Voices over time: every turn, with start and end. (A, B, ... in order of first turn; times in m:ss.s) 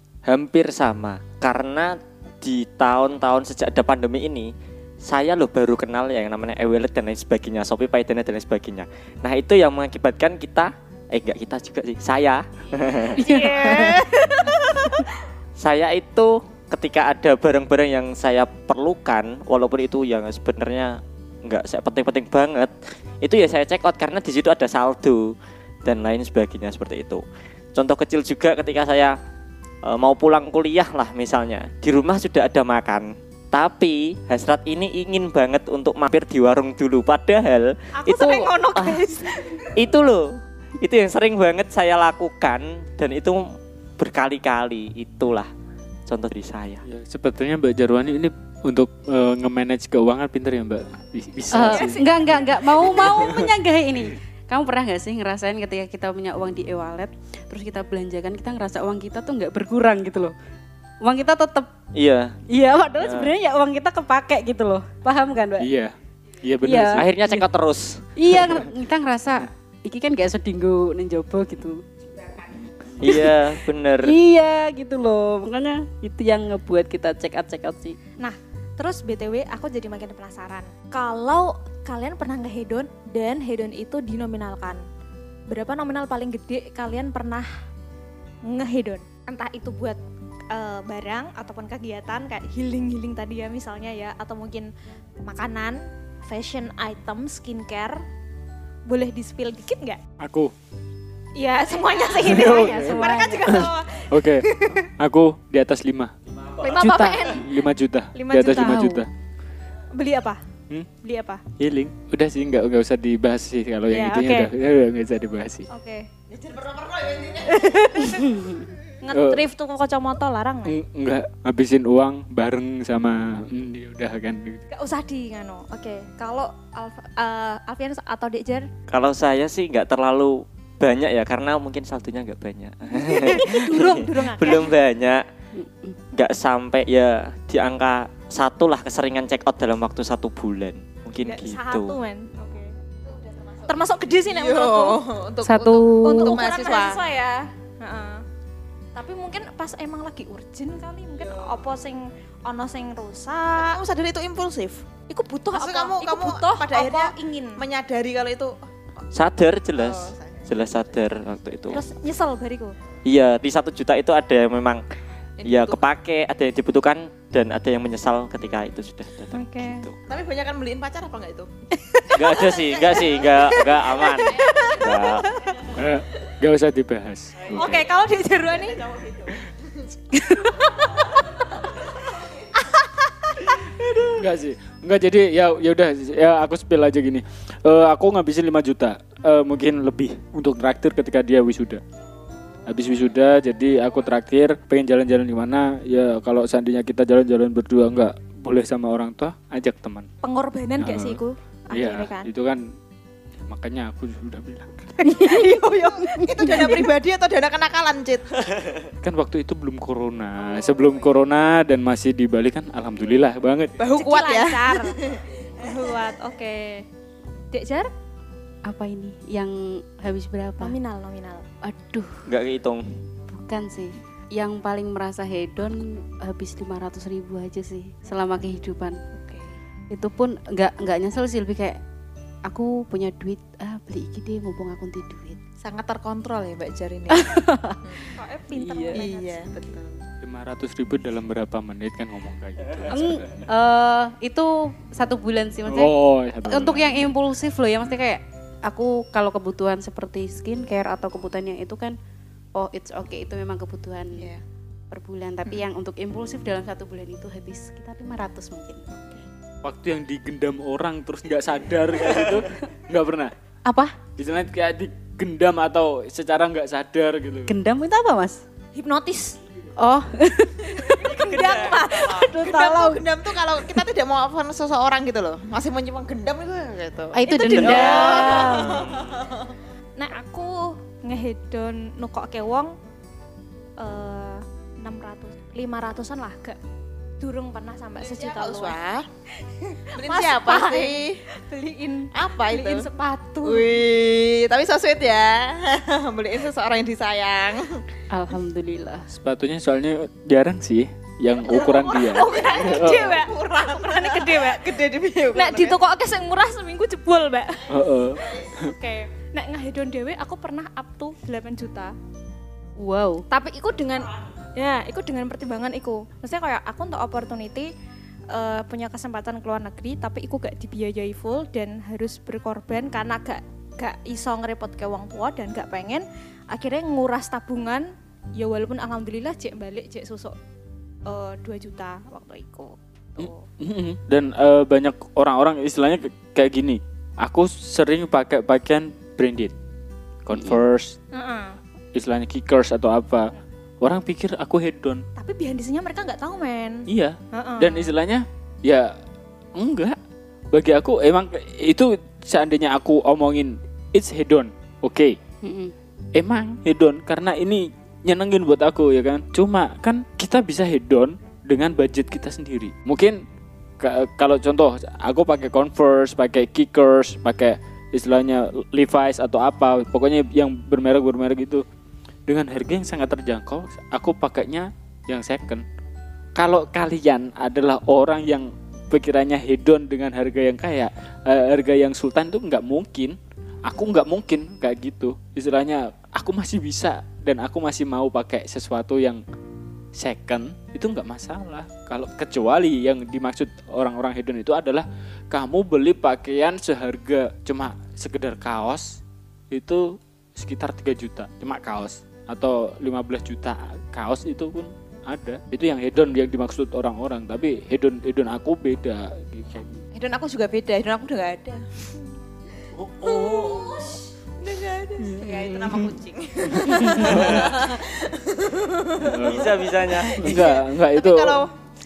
0:00.2-0:04.5 A
0:05.0-0:14.5 A
0:13.2-0:14.1 B
0:13.2-0:14.9 C
0:15.6-0:27.2 A
0:27.7-0:29.2 A
0:29.8-0:43.4 A
0:37.9-0:39.7 C
0:44.0-0:45.5 A
0:46.1-0:46.8 A
0:46.9-0:52.0 D
0:51.5-1:00.3 B
0:51.6-0:53.3 C
0:53.0-0:53.4 D
1:01.0-1:01.7 B
1:01.9-1:02.4 A
1:02.5-1:05.7 B
1:03.0-1:03.3 A
1:05.6-1:07.1 D
1:06.6-1:07.5 B
1:06.9-1:08.7 A
1:08.2-1:11.8 B
1:13.0-1:14.1 A
1:13.0-1:18.0 B
1:18.2-1:24.8 C
1:25.5-1:27.5 C
1:28.5-1:30.0 C
1:30.5-1:34.7 C
1:35.2-1:38.0 C
1:38.9-1:40.0 C
1:40.2-1:40.5 D
1:41.4-1:44.9 C
1:42.2-1:43.6 B
1:42.2-1:46.2 D
1:46.6-1:47.5 C
1:46.7-1:49.1 D
1:48.1-1:48.8 C
1:48.5-1:49.0 B
1:49.9-1:50.4 C
1:51.0-1:51.4 C
1:51.6-1:55.6 D
1:53.9-1:54.5 C
1:55.7-1:56.1 C
1:56.3-1:58.3 E
1:57.6-1:58.3 C
1:58.0-1:58.6 B
1:59.0-2:00.8 C
1:59.1-1:59.4 D
2:00.6-2:04.6 D
2:04.7-2:08.7 C
2:08.9-2:15.2 A
2:13.0-2:14.7 C
2:15.5-2:16.0 B
2:16.1-2:22.0 A
2:21.2-2:22.7 C
2:23.0-2:27.0 E
2:23.6-2:25.0 C
2:25.4-2:26.4 B
2:26.0-2:28.2 C
2:29.0-2:33.8 C
2:31.2-2:31.6 E
2:33.6-2:34.8 E
2:35.1-2:37.6 C
2:35.5-2:38.5 E
2:39.1-2:41.8 A
2:39.7-2:40.8 E
2:41.7-2:42.7 C
2:43.0-2:44.8 A
2:45.4-2:45.8 E
2:45.4-2:50.0 A
2:49.3-2:49.9 C
2:50.1-2:55.8 E
2:52.1-2:55.3 A
2:54.3-2:55.5 C
2:55.7-2:57.7 D
2:57.5-2:58.8 C
2:57.5-2:57.8 E
2:58.5-2:59.8 E
3:01.7-3:02.5 E
3:02.7-3:03.6 C
3:03.8-3:04.1 E
3:04.1-3:11.8 D
3:12.6-3:20.1 D
3:20.2-3:22.3 C
3:20.8-3:21.2 D
3:21.7-3:22.6 D
3:23.5-3:25.0 D
3:25.1-3:25.6 B
3:25.2-3:26.2 C
3:25.5-3:28.6 E
3:26.2-3:26.8 B
3:29.0-3:33.7 D
3:30.5-3:31.0 E
3:33.8-3:35.2 E
3:34.0-3:36.8 C
3:37.5-3:37.9 C
3:38.6-3:40.8 B
3:40.6-3:41.4 C
3:41.6-3:42.2 B
3:42.2-3:42.8 A
3:43.3-3:49.0 B
3:49.1-3:49.5 E
3:49.9-3:51.8 B
3:52.5-3:55.4 B
3:55.6-3:57.3 E
3:57.1-3:57.8 B
3:57.8-3:58.1 E
3:58.0-3:59.5 C
3:58.5-3:59.0 B
3:58.9-4:00.0 E
4:00.2-4:03.4 D
4:02.8-4:05.9 B
4:05.7-4:07.1 D
4:06.5-4:12.0 B
4:12.5-4:14.3 B
4:14.1-4:14.4 E
4:14.9-4:18.9 B
4:19.6-4:23.3 D
4:23.6-4:24.0 B
4:24.2-4:27.5 D
4:27.5-4:28.4 B
4:28.8-4:29.4 C
4:29.8-4:33.8 B
4:31.0-4:32.3 C
4:31.2-4:32.3 A
4:31.6-4:39.5 E
4:37.1-4:38.9 B
4:37.3-4:38.6 C
4:37.5-4:39.0 A
4:40.0-4:42.7 C
4:43.8-4:46.6 C
4:47.2-4:48.8 C
4:48.0-4:49.0 E
4:49.6-4:53.7 C
4:50.0-4:51.2 E
4:52.1-4:52.9 E
4:53.4-4:57.8 E
4:58.1-4:59.1 B
4:59.1-5:03.1 D
5:01.5-5:05.8 E
5:01.6-5:04.8 C
5:05.3-5:07.7 C
5:07.7-5:08.7 D
5:08.3-5:11.9 C
5:12.8-5:13.2 B
5:13.3-5:17.7 C
5:18.3-5:30.3 C
5:31.0-5:33.4 C
5:33.2-5:39.5 D
5:40.2-5:41.0 D
5:40.3-5:40.6 B
5:41.1-5:41.6 C
5:41.9-5:45.0 D
5:45.2-5:47.9 C
5:46.9-5:48.9 D
5:49.5-5:50.0 D
5:50.5-5:55.2 D
5:55.4-5:55.7 B
5:56.2-6:03.2 D
6:03.8-6:11.6 D
6:12.3-6:15.6 D
6:16.3-6:29.2 D
6:29.9-6:39.0 D
6:39.5-6:49.8 D
6:49.9-6:51.6 E
6:52.8-6:53.6 D
6:53.0-7:01.5 E
6:55.2-6:55.7 B
6:56.8-6:57.2 B
6:56.8-6:57.7 D
6:59.0-6:59.5 D
6:59.1-7:00.5 A
7:00.1-7:01.4 D